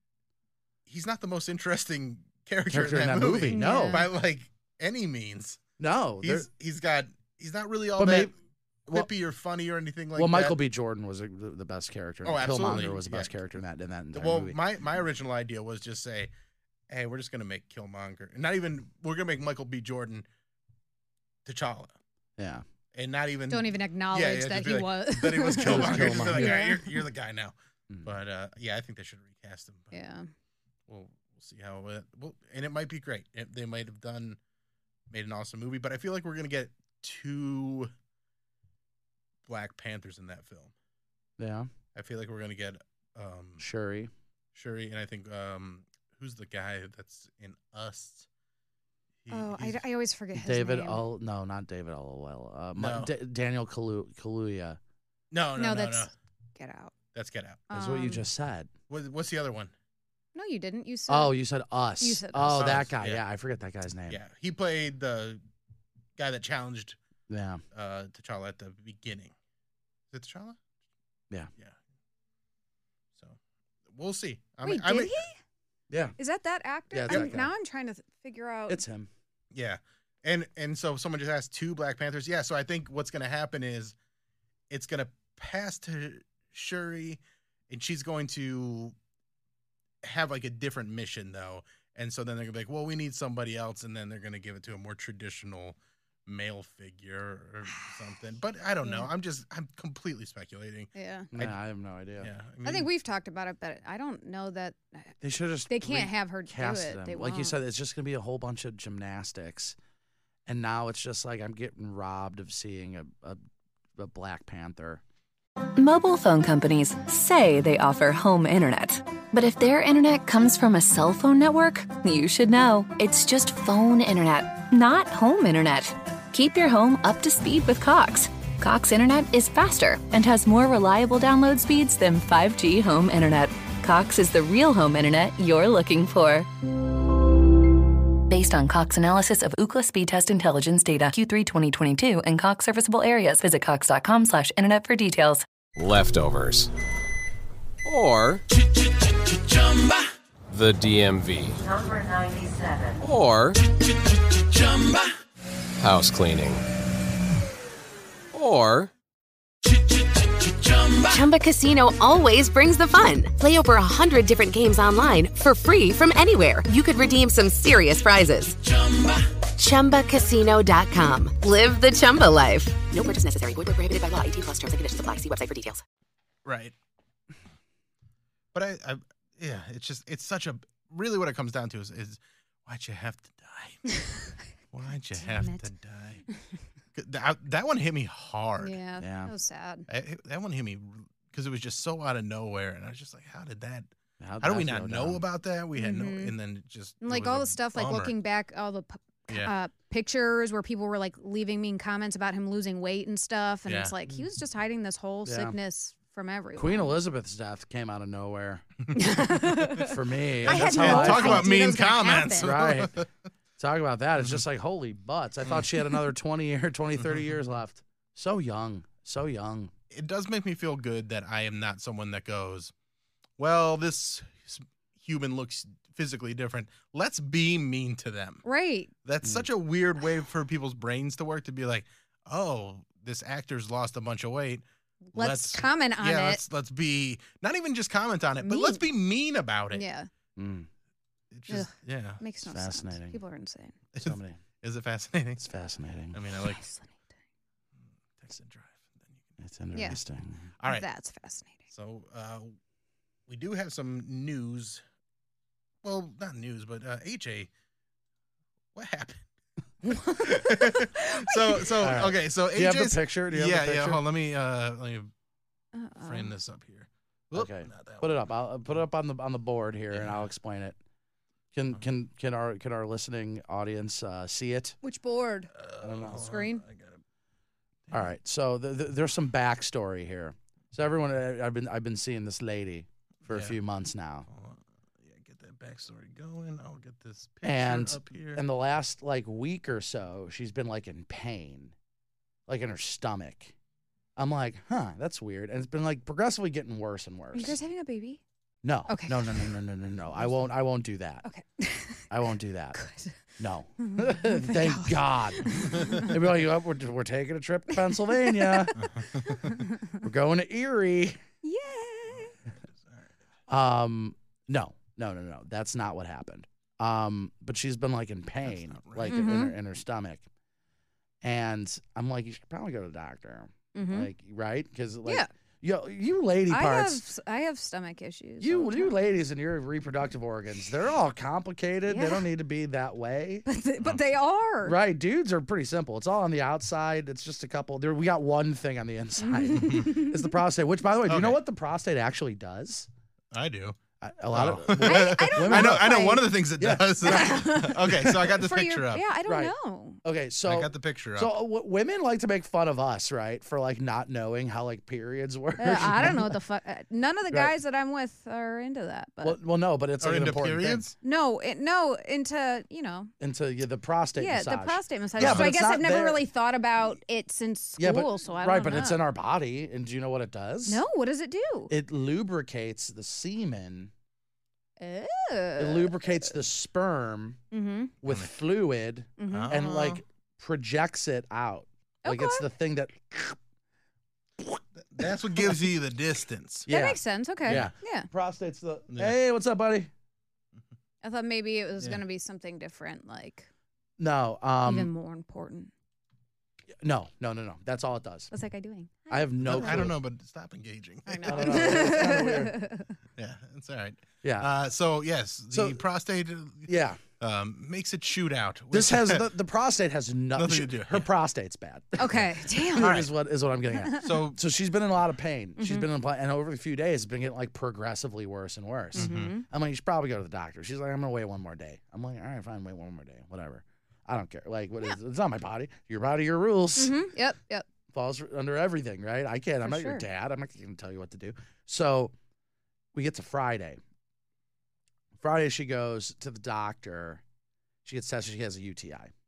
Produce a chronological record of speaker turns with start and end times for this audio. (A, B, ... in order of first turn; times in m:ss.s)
0:00.9-0:05.6 A
0:02.7-0:04.1 B
0:03.5-0:04.1 C
0:05.8-0:06.5 B
0:06.2-0:08.3 A
0:08.0-0:08.3 B
0:08.9-0:10.6 A
0:10.1-0:14.6 B
0:12.2-0:13.3 A
0:14.1-0:16.3 A
0:16.9-0:20.2 A
0:21.4-0:21.9 A
0:22.4-0:22.6 B
0:22.9-0:27.5 A
0:23.5-0:27.0 C
0:25.6-0:26.6 B
0:28.0-0:30.0 A
0:29.9-0:30.3 C
0:30.9-0:34.4 A
0:35.1-0:37.9 A
0:39.5-0:40.7 A
0:41.4-0:41.7 B
0:41.9-0:43.6 A
0:43.6-0:44.1 B
0:44.5-0:48.3 A
0:49.2-0:49.8 A
0:49.3-0:51.0 C
0:50.3-0:54.8 B
0:52.8-0:53.1 A
0:55.3-0:56.1 A
0:55.6-0:56.9 C
0:57.1-0:57.6 A
0:57.7-0:58.2 C
0:57.7-0:58.7 B
0:58.9-0:59.7 A
1:00.3-1:01.4 C
1:01.1-1:04.2 B
1:02.0-1:02.8 C
1:02.6-1:03.2 A
1:04.1-1:05.4 A
1:06.2-1:07.0 A
1:07.3-1:07.6 B
1:07.7-1:09.3 A
1:10.1-1:10.6 A
1:13.9-1:15.2 A
1:14.6-1:15.3 C
1:15.9-1:16.1 B
1:16.2-1:18.8 C
1:16.9-1:17.5 B
1:18.7-1:19.1 B
1:19.5-1:23.9 A
1:24.7-1:28.9 A
1:30.0-1:35.8 A
1:36.3-1:41.6 A
1:38.8-1:39.1 C
1:41.0-1:41.3 C
1:41.3-1:42.3 B
1:42.2-1:42.9 A
1:42.6-1:45.1 C
1:45.2-1:49.8 B
1:45.7-1:47.6 C
1:50.4-1:53.4 B
1:54.0-1:55.0 B
1:55.8-2:16.5 D
2:18.3-2:25.4 D
2:25.7-2:26.7 E
2:27.8-2:28.4 E
2:30.5-2:31.6 E
2:33.0-2:33.6 E
2:35.8-2:36.6 E
2:38.3-2:38.9 E
2:41.0-2:48.6 F
2:49.6-2:55.8 F
2:56.4-2:56.7 A
2:58.5-3:03.8 A
3:04.7-3:06.2 A
3:05.2-3:05.6 C
3:06.9-3:08.8 A
3:08.6-3:09.8 C
3:09.0-3:09.3 B
3:09.9-3:13.9 A
3:14.2-3:15.2 B
3:14.4-3:18.1 A
3:15.8-3:16.3 C
3:17.0-3:26.9 C
3:23.6-3:23.9 A
3:25.2-3:25.5 B
3:26.6-3:28.6 B
3:28.8-3:33.1 A
3:28.9-3:32.5 C
3:29.8-3:31.6 B
3:32.4-3:32.9 B
3:33.6-3:39.7 B
3:37.0-3:37.2 A
3:39.9-3:42.7 A
3:43.4-3:48.4 A
3:48.4-3:48.9 C
3:49.0-3:54.6 A
3:49.2-3:49.5 B
3:55.1-3:56.4 C
3:55.1-3:59.8 A
3:58.4-3:58.8 C
3:59.7-4:00.1 C
4:00.4-4:00.7 B
4:01.3-4:02.2 A
4:01.5-4:03.8 C
4:02.4-4:03.2 B
4:03.9-4:05.4 A
4:04.0-4:04.4 B
4:05.4-4:06.2 B
4:06.1-4:06.6 A
4:06.3-4:07.0 C
4:08.2-4:09.3 A
4:09.4-4:10.5 B
4:09.7-4:10.0 C
4:10.6-4:10.8 A
4:10.6-4:11.6 C
4:11.7-4:12.5 A
4:13.3-4:14.8 A
4:15.8-4:17.5 A
4:18.7-4:19.2 A
4:19.9-4:21.6 C
4:20.1-4:25.1 A
4:21.8-4:24.0 B
4:25.7-4:26.3 C
4:26.0-4:28.2 A
4:27.3-4:30.8 B
4:29.9-4:30.3 A
4:31.5-4:34.8 B
4:34.8-4:35.5 C
4:35.5-4:37.0 A
4:35.8-4:36.2 B
4:36.1-4:36.6 C
4:37.9-4:44.3 B
4:43.3-4:43.6 A
4:44.3-4:48.4 A
4:47.4-4:51.7 B
4:52.5-4:53.5 B
4:54.2-4:57.6 B
4:57.3-4:58.2 C
4:58.6-5:01.3 B
4:58.9-4:59.5 C
5:01.2-5:02.1 C
5:02.1-5:02.8 B
5:02.7-5:03.3 C
5:03.4-5:08.8 B
5:03.8-5:06.2 C
5:08.0-5:09.8 C
5:08.8-5:09.6 A
5:10.0-5:11.2 B
5:11.4-5:12.4 C
5:13.5-5:20.3 B
5:18.4-5:19.2 A
5:19.0-5:19.5 C
5:21.2-5:27.0 B
5:23.7-5:24.1 C
5:26.5-5:28.9 C
5:28.4-5:33.4 B
5:31.8-5:32.2 C
5:33.4-5:34.8 C
5:34.6-5:42.9 B
5:39.2-5:40.4 C
5:39.6-5:40.0 A
5:41.1-5:41.4 A
5:43.3-5:43.8 A
5:44.0-5:48.0 B
5:44.3-5:49.1 A
5:44.8-5:46.3 C
5:47.0-5:50.0 C
5:49.2-5:56.4 B
5:50.4-5:51.3 A
5:55.6-5:59.4 C
5:57.3-5:57.5 B
5:59.2-6:00.9 B
6:00.0-6:00.9 A
6:01.0-6:03.1 C
6:03.2-6:06.2 B
6:04.2-6:09.0 C
6:05.2-6:05.5 A
6:07.8-6:10.8 B
6:10.6-6:11.7 C
6:11.7-6:13.9 B
6:14.8-6:16.0 C
6:15.6-6:17.4 B
6:17.5-6:17.9 C
6:18.0-6:23.4 B
6:19.2-6:19.5 C
6:19.3-6:20.0 A
6:22.0-6:22.4 C
6:24.4-6:25.5 B
6:24.8-6:26.7 A
6:26.7-6:29.9 B
6:26.7-6:28.1 C
6:27.4-6:27.7 A
6:31.0-6:33.5 C
6:34.0-6:34.9 B
6:34.6-6:35.7 C
6:36.8-6:38.3 B
6:38.3-6:39.9 C
6:39.1-6:40.0 B
6:39.4-6:42.3 A
6:41.1-6:42.9 C
6:41.2-6:42.6 B
6:43.2-6:49.3 A
6:44.2-6:44.5 B
6:45.5-6:45.8 B
6:46.7-6:47.0 B
6:48.7-7:07.1 B
6:50.3-6:51.1 A
6:52.0-6:53.0 C
6:52.8-6:53.1 A
6:54.0-6:54.4 A
6:55.6-6:55.9 C
6:58.9-6:59.4 A
6:58.9-6:59.4 C
7:06.8-7:07.6 C
7:07.9-7:12.1 B
7:09.6-7:10.0 C
7:12.9-7:13.8 B
7:15.2-7:17.2 B
7:17.8-7:19.1 B